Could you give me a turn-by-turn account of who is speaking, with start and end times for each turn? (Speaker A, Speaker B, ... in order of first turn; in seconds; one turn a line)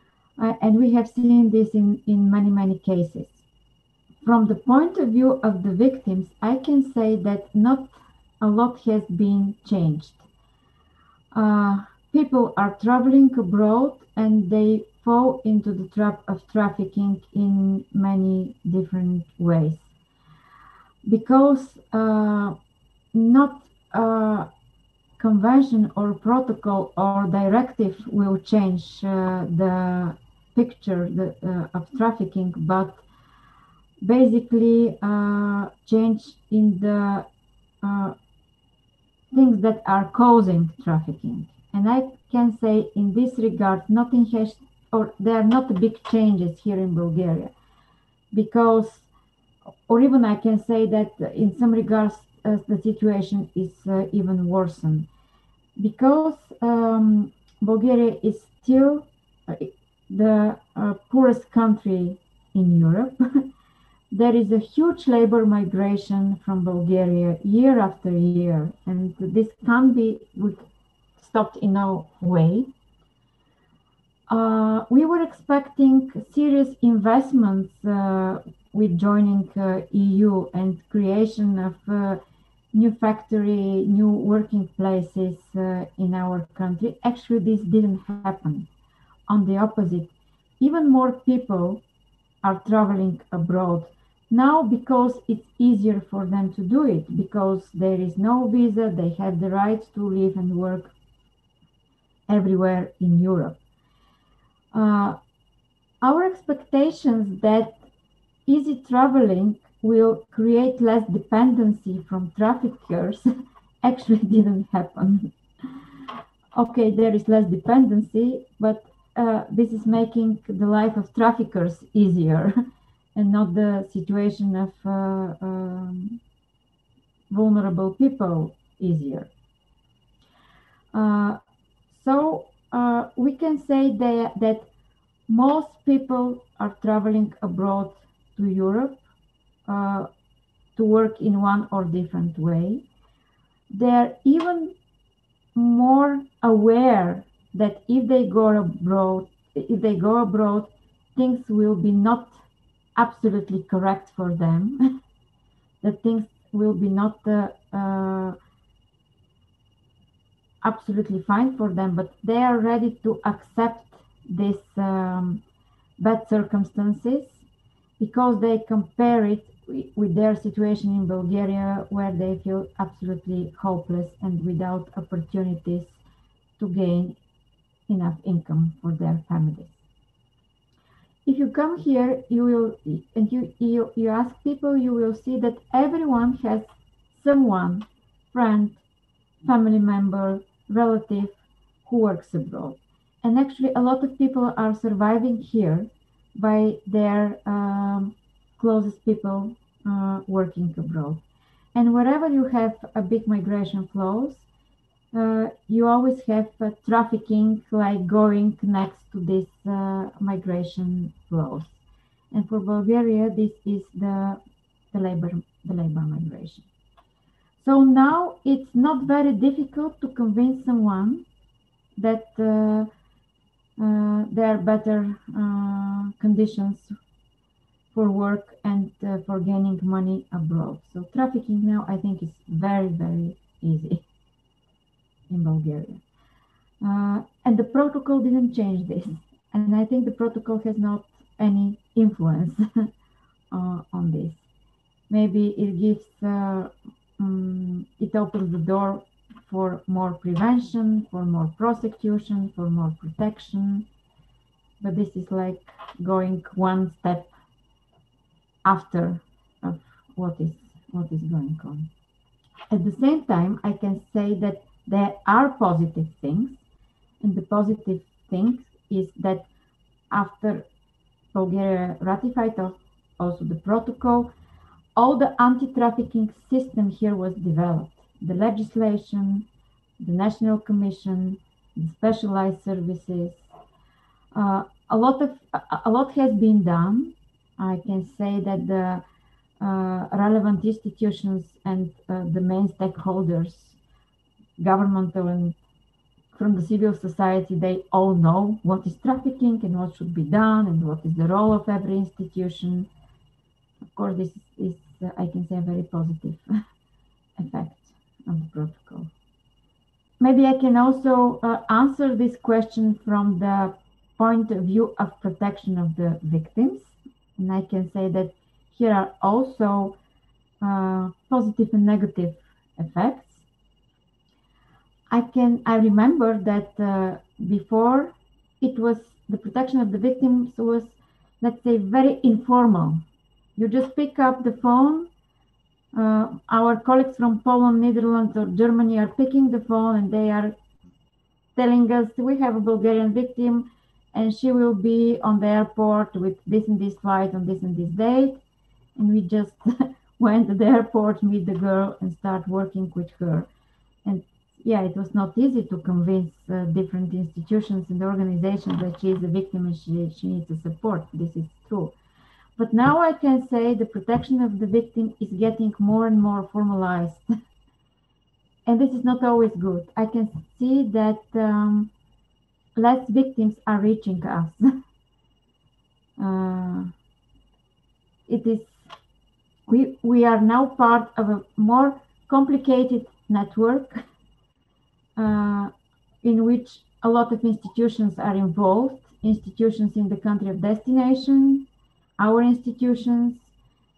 Speaker A: 0.4-3.4
Speaker A: 4.2-10.2
Speaker A: 11.3-19.9
Speaker A: 21.1-22.6
Speaker A: 23.1-24.5
Speaker A: 25.2-33.0
Speaker A: 34.0-37.3
Speaker A: 37.8-38.2
Speaker A: 39.3-47.5
Speaker A: 48.3-49.1
Speaker A: 49.9-55.1
Speaker A: 55.8-63.2
Speaker A: 64.1-70.6
Speaker A: 71.2-72.7
Speaker A: 74.3-82.2
Speaker A: 82.7-88.7
Speaker A: 89.3-91.8
Speaker A: 92.4-100.9
Speaker A: 102.3-103.6
Speaker A: 104.7-105.2
Speaker A: 106.0-107.8
Speaker A: 108.5-113.2
Speaker A: 113.8-115.3
Speaker A: 116.5-122.5
Speaker A: 123.2-126.2
Speaker A: 127.3-129.3
Speaker A: 130.9-134.7
Speaker A: 135.3-139.0
Speaker A: 139.7-140.1
Speaker A: 140.8-142.8
Speaker A: 143.7-144.7
Speaker A: 145.6-152.4
Speaker A: 153.0-154.8
Speaker A: 155.8-158.4
Speaker A: 160.6-165.4
Speaker A: 166.0-167.4
Speaker A: 168.0-176.0
Speaker A: 176.6-177.2
Speaker A: 177.9-179.8
Speaker A: 181.3-188.8
Speaker A: 189.4-201.2
Speaker A: 201.8-204.4
Speaker A: 205.1-211.8
Speaker A: 212.3-214.4
Speaker A: 214.9-216.7
Speaker A: 217.6-221.3
Speaker A: 222.0-222.9
Speaker A: 223.8-227.0
Speaker A: 227.9-234.0
Speaker A: 235.3-236.0
Speaker A: 236.8-242.6
Speaker A: 243.5-244.4
Speaker A: 245.1-253.9
Speaker A: 254.8-257.3
Speaker A: 258.6-261.9
Speaker A: 262.7-266.6
Speaker A: 267.2-269.5
Speaker A: 270.1-270.7
Speaker A: 271.3-274.3
Speaker A: 275.0-279.5
Speaker A: 280.0-283.4
Speaker A: 284.3-289.0
Speaker A: 289.6-293.8
Speaker A: 294.6-295.6
Speaker A: 296.3-302.9
Speaker A: 303.9-306.4
Speaker A: 307.4-309.1
Speaker A: 310.2-320.0
Speaker A: 320.6-323.4
Speaker A: 325.1-333.0
Speaker A: 333.6-335.1
Speaker A: 335.9-340.6
Speaker A: 341.6-348.4
Speaker A: 349.0-349.6
Speaker A: 350.2-353.5
Speaker A: 354.1-361.9
Speaker A: 362.6-367.2
Speaker A: 368.7-371.9
Speaker A: 372.8-374.6
Speaker A: 376.2-376.9
Speaker A: 378.3-378.8
Speaker A: 379.7-384.0
Speaker A: 385.2-385.7
Speaker A: 386.2-391.7
Speaker A: 392.2-393.5